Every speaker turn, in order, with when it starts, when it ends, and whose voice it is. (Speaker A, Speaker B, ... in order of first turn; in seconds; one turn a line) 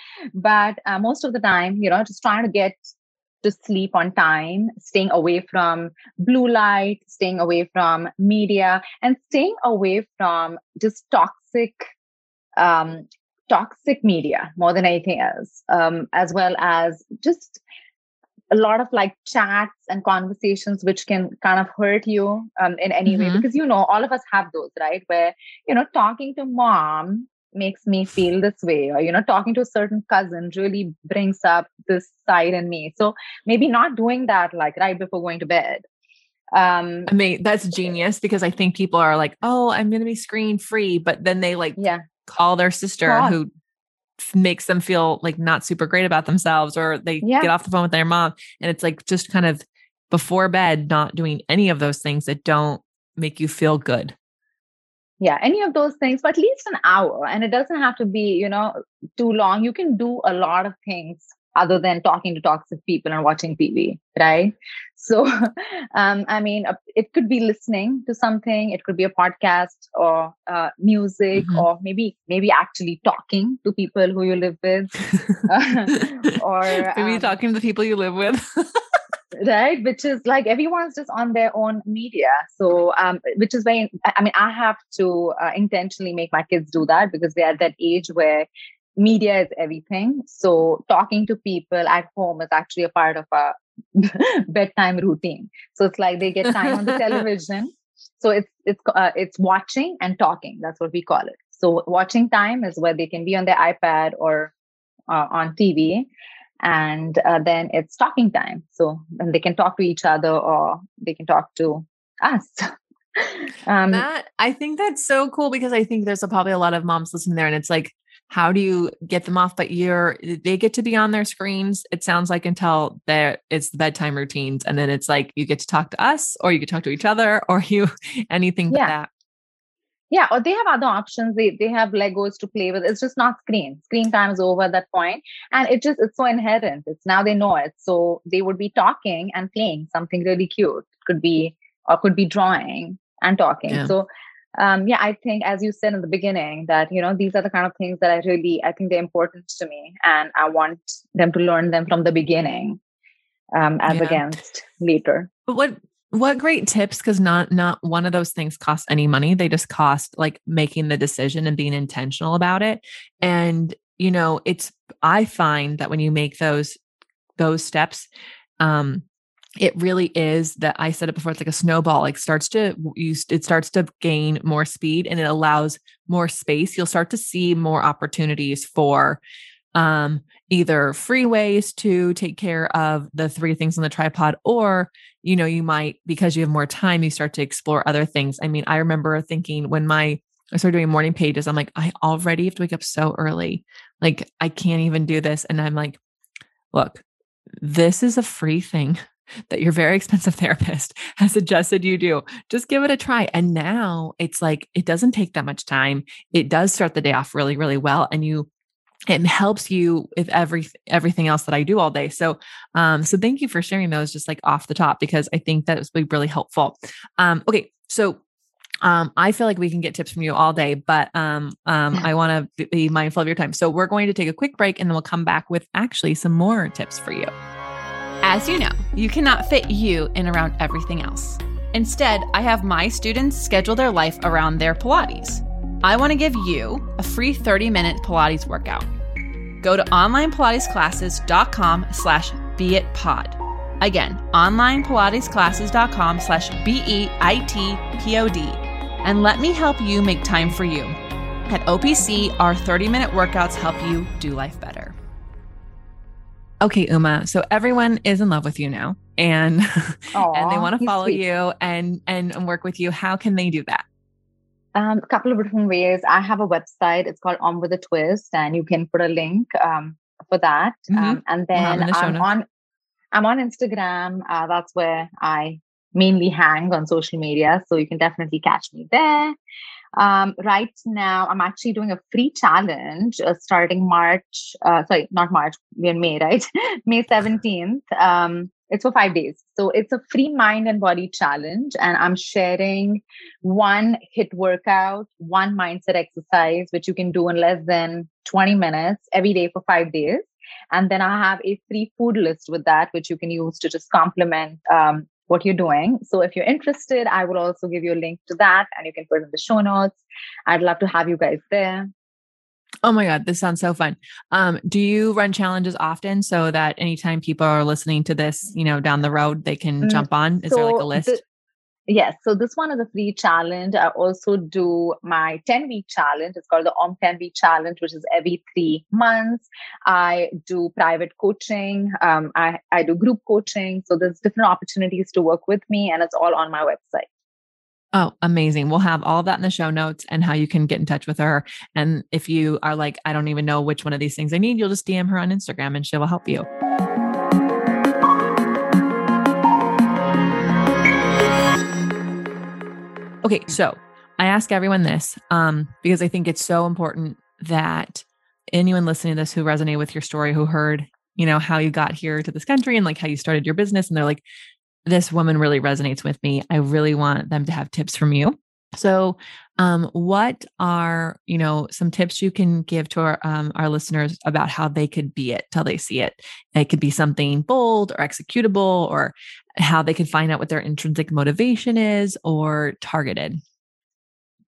Speaker A: 0.3-2.9
Speaker A: 3.4-11.9
Speaker A: 12.6-17.6
Speaker A: 18.5-35.8
Speaker B: 23.1-23.4
Speaker A: 36.5-37.1
Speaker B: 37.1-43.5
Speaker A: 41.8-42.0
Speaker A: 43.0-43.4
Speaker B: 44.2-54.1
Speaker A: 47.2-47.5
Speaker A: 55.2-74.9
Speaker A: 75.4-77.4
Speaker B: 76.8-78.8
Speaker A: 79.3-104.5
Speaker A: 105.1-106.1
Speaker A: 106.6-114.0
Speaker B: 113.9-129.1
Speaker A: 130.1-152.8
Speaker A: 153.5-155.3
Speaker B: 153.9-154.2
Speaker B: 155.5-166.8
Speaker B: 167.4-168.1
Speaker B: 168.6-169.0
Speaker B: 169.6-179.2
Speaker B: 179.7-196.0
Speaker B: 196.7-197.0
Speaker B: 197.6-208.5
Speaker B: 209.1-218.2
Speaker B: 218.8-227.3
Speaker C: 228.2-238.9
Speaker C: 239.6-251.0
Speaker C: 251.5-254.9
Speaker B: 256.6-263.8
Speaker A: 260.1-261.2
Speaker A: 264.7-272.4
Speaker B: 270.9-272.3
Speaker A: 273.1-279.3
Speaker A: 279.9-311.9
Speaker B: 312.8-321.2
Speaker A: 319.8-321.2
Speaker A: 321.9-337.1
Speaker B: 337.9-346.5
Speaker B: 353.2-364.2
Speaker B: 364.9-383.4